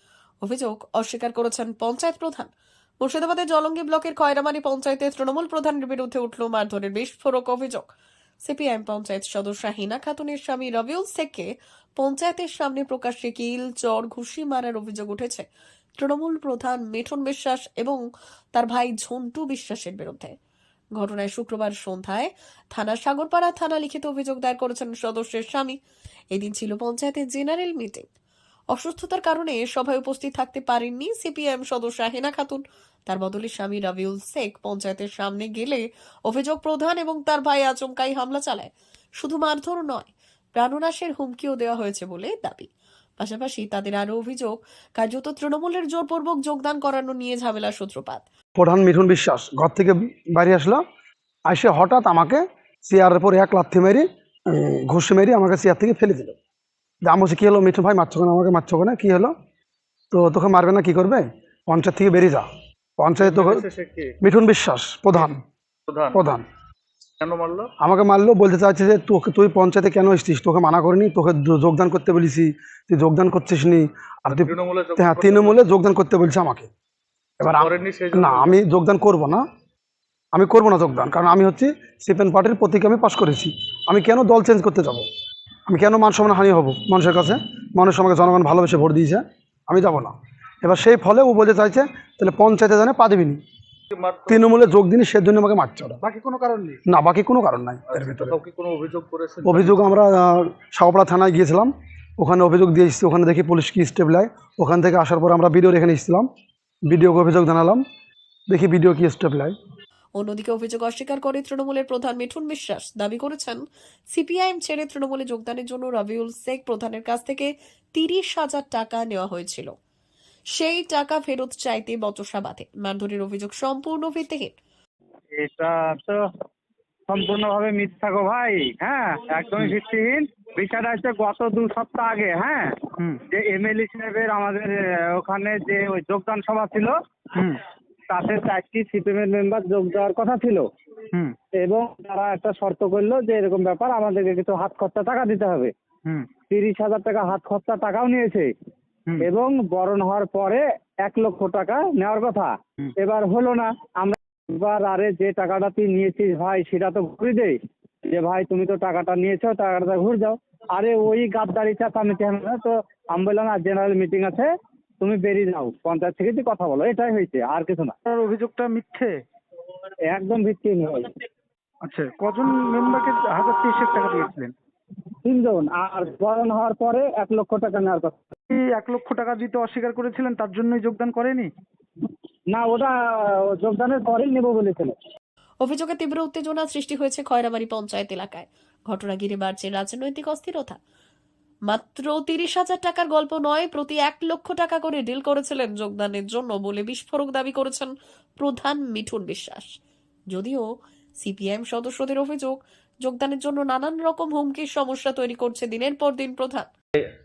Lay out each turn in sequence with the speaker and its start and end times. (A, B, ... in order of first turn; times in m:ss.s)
0:00.4-0:02.5 A
0:03.0-0:07.9 A
0:08.4-0:15.5 A
0:16.0-0:18.0 A
0:18.5-0:20.4 A
0:21.0-0:25.8 A
0:26.3-0:28.0 A
0:28.7-0:48.2 A
0:48.6-0:50.8 B
0:51.5-0:56.4 B
0:57.0-0:59.3 B
1:00.1-1:02.5 B
1:03.0-1:03.7 B
1:03.2-1:04.1 C
1:04.2-1:05.4 B
1:05.9-1:06.3 C
1:06.1-1:06.4 B
1:07.2-1:07.7 C
1:07.8-1:16.7 B
1:14.3-1:15.6 C
1:17.4-1:19.4 B
1:17.4-1:18.6 C
1:20.3-1:25.0 B
1:25.7-1:33.4 B
1:33.9-1:34.5 C
1:34.3-1:36.0 B
1:36.1-1:36.8 D
1:36.2-1:36.5 C
1:36.9-1:38.4 B
1:37.9-1:39.9 C
1:39.4-1:46.3 B
1:46.9-1:47.8 B
1:48.5-1:49.6 B
1:50.2-1:59.7 A
2:00.5-2:04.5 A
2:05.3-2:06.2 E
2:07.1-2:12.7 E
2:13.3-2:17.5 E
2:18.1-2:20.7 E
2:21.6-2:25.7 E
2:26.4-2:28.5 E
2:29.2-2:44.5 E
2:45.0-2:47.9 E
2:48.1-2:49.2 D
2:50.1-2:51.1 E
2:51.8-2:54.6 D
2:55.2-2:58.2 E
2:58.5-3:01.5 D
3:02.5-3:04.9 E
3:05.6-3:10.8 A
3:11.7-3:19.7 A
3:20.3-3:20.6 A
3:21.2-3:26.7 A